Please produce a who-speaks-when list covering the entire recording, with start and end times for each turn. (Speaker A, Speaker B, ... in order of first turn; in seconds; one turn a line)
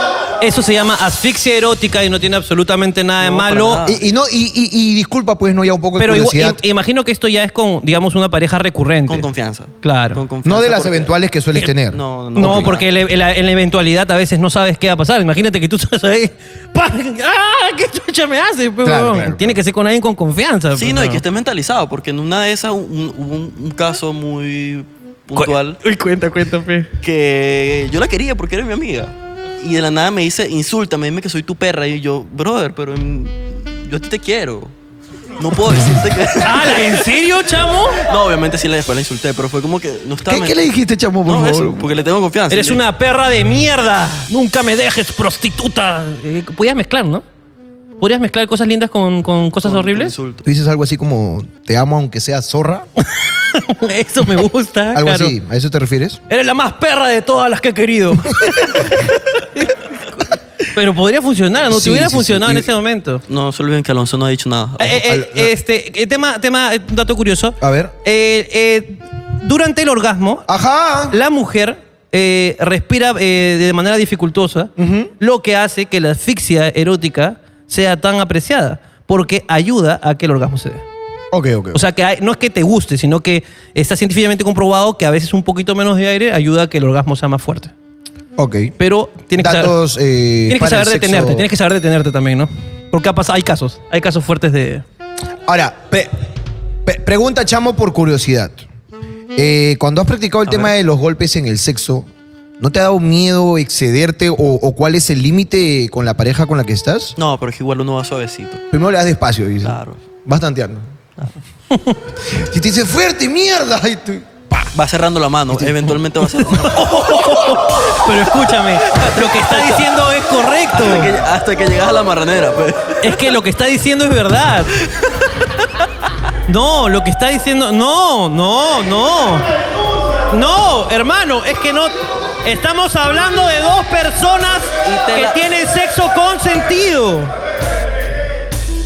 Speaker A: 0.4-3.8
Speaker B: 3.2-4.0
Speaker C: 3.8-6.6
Speaker A: 6.0-9.3
Speaker B: 9.1-11.1
Speaker A: 9.8-10.2
Speaker C: 10.4-12.7
Speaker B: 11.8-12.9
Speaker A: 12.3-21.2
Speaker C: 18.8-19.6
Speaker B: 20.7-25.8
Speaker A: 25.3-26.9
Speaker B: 27.0-34.7
Speaker B: 35.4-37.0
Speaker A: 36.4-38.0
Speaker B: 38.1-40.6
Speaker C: 40.3-41.9
Speaker B: 41.2-42.8
Speaker A: 42.5-47.2
Speaker A: 48.0-50.1
Speaker B: 49.6-50.4
Speaker C: 50.4-52.9
Speaker A: 53.2-55.3
Speaker C: 54.9-56.2
Speaker A: 56.3-63.2
Speaker C: 61.7-62.7
Speaker B: 63.3-65.0
Speaker A: 64.8-70.5
Speaker C: 64.9-65.5
Speaker C: 67.6-67.9
Speaker C: 70.5-71.2
Speaker A: 71.1-80.8
Speaker C: 74.8-75.1
Speaker C: 81.3-81.8
Speaker A: 81.7-87.7
Speaker C: 88.4-88.7
Speaker A: 88.8-89.7
Speaker C: 89.3-91.5
Speaker A: 90.5-94.8
Speaker C: 95.5-96.1
Speaker C: 96.8-98.6
Speaker C: 99.3-102.1
Speaker B: 100.5-100.7
Speaker C: 102.6-107.1
Speaker B: 107.2-108.6
Speaker C: 108.7-110.9
Speaker B: 109.6-110.0
Speaker C: 112.3-114.5
Speaker B: 114.7-117.7
Speaker C: 115.5-116.0
Speaker A: 116.5-121.1
Speaker B: 118.9-123.0
Speaker A: 123.0-124.7
Speaker A: 126.5-129.5
Speaker A: 130.3-137.3
Speaker B: 134.8-135.4